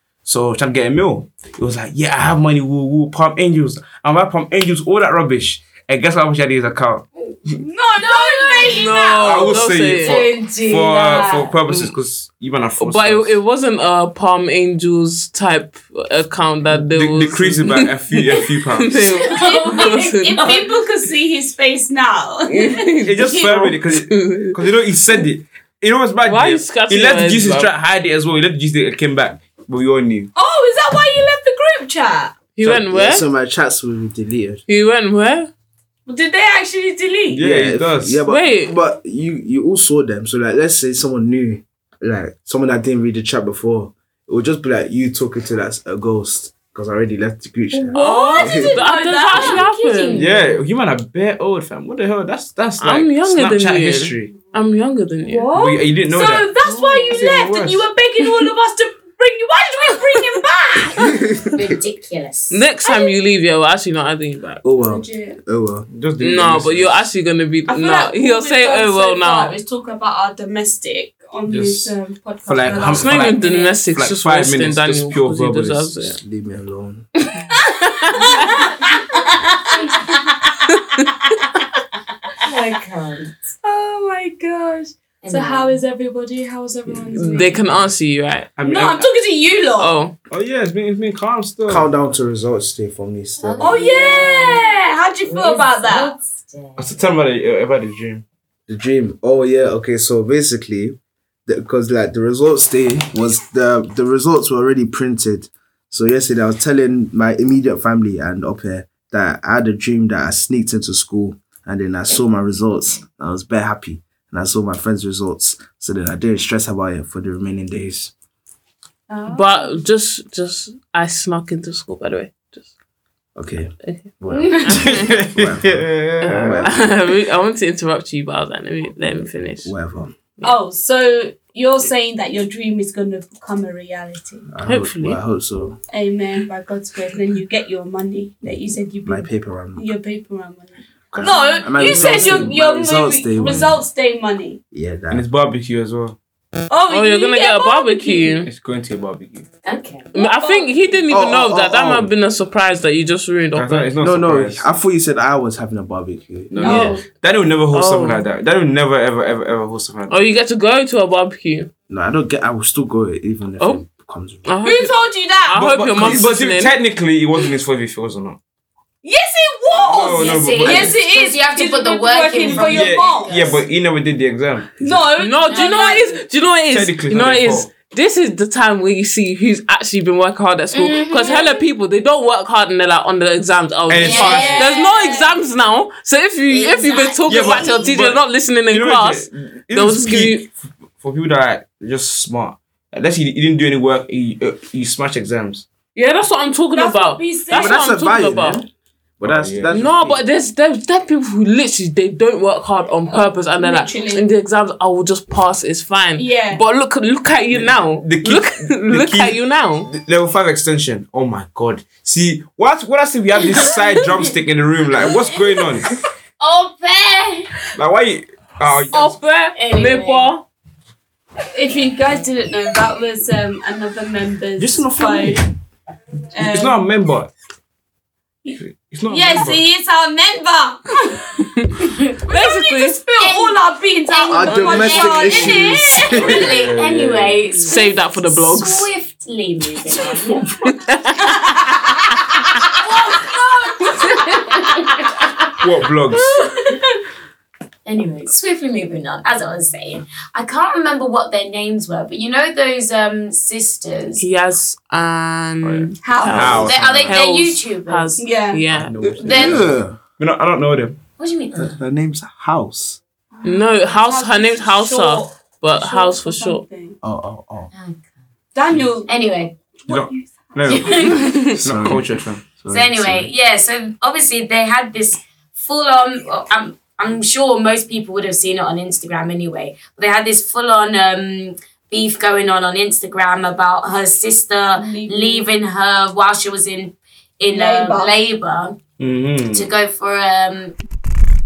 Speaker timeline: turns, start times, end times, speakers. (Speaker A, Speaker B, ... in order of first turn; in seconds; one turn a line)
Speaker A: 0.2-7.6
Speaker B: 7.5-9.6
Speaker C: 8.0-9.0
Speaker D: 8.6-10.2
Speaker A: 9.2-13.4
Speaker C: 9.6-11.5
Speaker D: 12.8-20.6
Speaker A: 16.7-19.0
Speaker C: 19.2-20.8
Speaker B: 19.3-23.5
Speaker D: 22.5-24.6
Speaker A: 23.0-30.3
Speaker D: 26.2-27.7
Speaker B: 30.4-32.4
Speaker D: 32.6-33.3
Speaker A: 32.6-32.9
Speaker E: 32.9-34.6
Speaker D: 34.7-35.5
Speaker B: 36.1-37.4
Speaker A: 37.3-38.2
Speaker E: 37.4-48.8
Speaker D: 38.3-38.7
Speaker B: 47.7-49.6
Speaker D: 47.9-50.2
Speaker C: 48.0-50.6
Speaker A: 50.1-54.4
Speaker D: 52.8-55.5
Speaker B: 55.2-61.5
Speaker A: 55.5-57.9
Speaker C: 61.5-62.6
Speaker D: 62.5-64.6
Speaker E: 64.6-65.9
Speaker B: 64.7-65.4
Speaker A: 65.9-67.1
Speaker D: 66.2-69.6
Speaker B: 67.7-73.8
Speaker A: 71.5-71.9
Speaker A: 72.4-76.0
Speaker D: 72.8-76.2
Speaker E: 76.2-77.1
Speaker B: 77.5-81.6
Speaker D: 77.7-78.5
Speaker D: 80.7-81.1
Speaker C: 82.4-83.4
Speaker B: 83.6-87.8
Speaker C: 85.2-85.8
Speaker D: 87.1-88.5
Speaker A: 88.6-89.1
Speaker B: 88.6-89.9
Speaker D: 89.8-90.1
Speaker A: 90.3-91.9
Speaker E: 91.7-93.8
Speaker C: 93.4-94.7
Speaker B: 93.6-96.1
Speaker C: 95.2-96.9
Speaker A: 96.8-98.2
Speaker E: 98.7-118.1
Speaker B: 119.1-119.8
Speaker D: 119.3-122.7
Speaker E: 123.3-126.9
Speaker D: 123.8-125.2
Speaker C: 124.3-124.8
Speaker A: 124.8-126.7
Speaker D: 126.2-129.7
Speaker E: 129.6-130.1
Speaker B: 130.4-134.5
Speaker E: 134.5-135.8
Speaker D: 134.7-135.2
Speaker B: 135.9-144.6
Speaker E: 139.1-139.9
Speaker E: 141.1-143.8
Speaker D: 141.8-142.5
Speaker E: 144.7-145.2
Speaker A: 145.1-146.2
Speaker B: 146.7-148.4
Speaker D: 146.9-148.5
Speaker A: 148.4-149.5
Speaker C: 149.7-150.1
Speaker B: 150.1-150.7
Speaker D: 150.1-153.9
Speaker E: 151.1-152.1
Speaker A: 153.6-154.7
Speaker E: 154.0-156.9
Speaker A: 156.5-160.2
Speaker B: 156.6-157.0
Speaker C: 156.7-157.0
Speaker D: 156.7-156.9
Speaker D: 157.7-158.2
Speaker D: 160.1-161.7
Speaker E: 161.9-164.5
Speaker D: 164.5-166.7
Speaker B: 164.6-165.6
Speaker A: 165.5-168.4
Speaker B: 169.0-173.4
Speaker A: 169.7-170.9
Speaker C: 170.0-173.6
Speaker A: 172.4-174.8
Speaker B: 174.8-176.2
Speaker D: 175.2-190.5
Speaker A: 176.7-177.7
Speaker C: 180.7-181.6
Speaker A: 183.9-184.7
Speaker C: 184.0-185.3
Speaker B: 184.1-184.8
Speaker C: 186.5-187.9
Speaker A: 187.2-195.7
Speaker D: 195.9-198.6
Speaker B: 196.7-197.9
Speaker E: 197.5-198.7
Speaker E: 199.2-200.2
Speaker A: 199.2-199.8
Speaker D: 199.7-209.9
Speaker B: 203.6-204.2
Speaker B: 206.2-206.6
Speaker A: 207.5-215.9
Speaker C: 216.4-217.5
Speaker A: 217.8-219.2
Speaker D: 218.9-220.4
Speaker C: 219.6-220.3
Speaker B: 221.5-225.4
Speaker A: 224.6-225.5
Speaker B: 226.3-226.8
Speaker A: 226.4-227.3
Speaker B: 228.4-236.4
Speaker A: 228.5-229.6
Speaker D: 231.5-231.7
Speaker D: 232.2-233.5
Speaker C: 233.2-233.6
Speaker C: 234.1-240.5
Speaker E: 234.3-236.6
Speaker A: 236.2-237.4
Speaker D: 237.6-238.9
Speaker D: 240.6-242.2
Speaker B: 241.2-242.1
Speaker B: 242.8-244.9
Speaker C: 242.8-245.4
Speaker D: 243.9-244.3
Speaker A: 245.6-246.3
Speaker B: 246.3-246.8
Speaker C: 247.9-254.2
Speaker D: 254.2-258.9
Speaker A: 255.6-257.2
Speaker B: 256.0-256.6
Speaker E: 256.4-256.7
Speaker C: 256.6-258.2
Speaker B: 258.2-258.6
Speaker A: 258.7-261.0
Speaker E: 259.0-260.0
Speaker C: 259.1-259.7
Speaker C: 261.2-261.8
Speaker E: 261.5-263.0
Speaker B: 263.4-267.0
Speaker D: 263.4-266.6
Speaker E: 267.0-267.7
Speaker C: 267.7-268.0
Speaker B: 268.5-269.1
Speaker C: 269.1-269.6
Speaker B: 269.8-271.5
Speaker A: 269.9-273.2
Speaker C: 270.7-271.4
Speaker D: 271.2-271.4
Speaker E: 271.6-273.3
Speaker C: 272.7-288.8
Speaker B: 284.8-285.5
Speaker B: 287.5-288.2
Speaker A: 289.0-289.7
Speaker C: 289.5-290.8